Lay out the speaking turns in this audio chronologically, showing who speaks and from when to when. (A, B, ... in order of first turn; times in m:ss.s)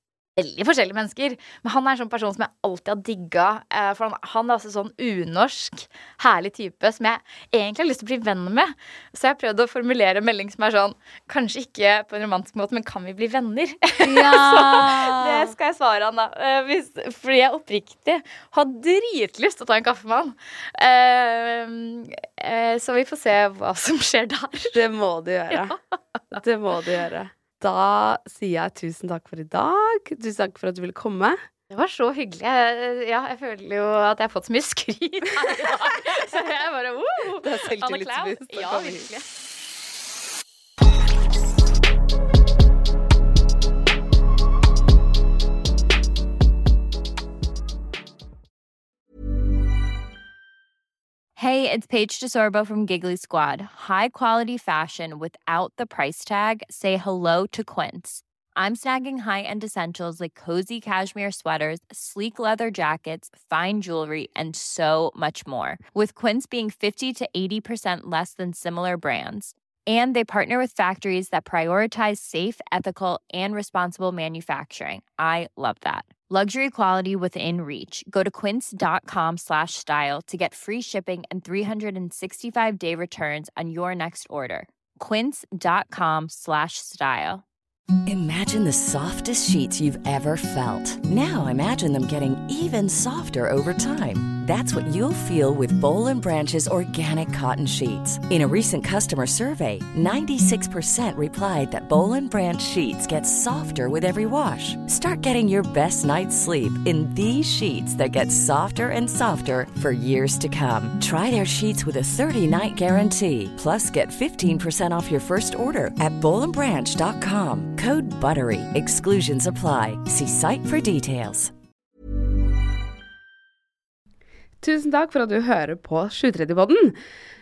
0:00.4-0:24.7 A
0:14.1-0:15.4 B
0:24.7-0:25.8 B
0:25.5-0:26.4 A
0:26.4-0:31.4 B
0:31.7-0:39.3 A
0:37.4-0:39.1 B
0:51.4-1:27.4 C
1:28.1-2:01.5 D
2:04.6-2:07.0 B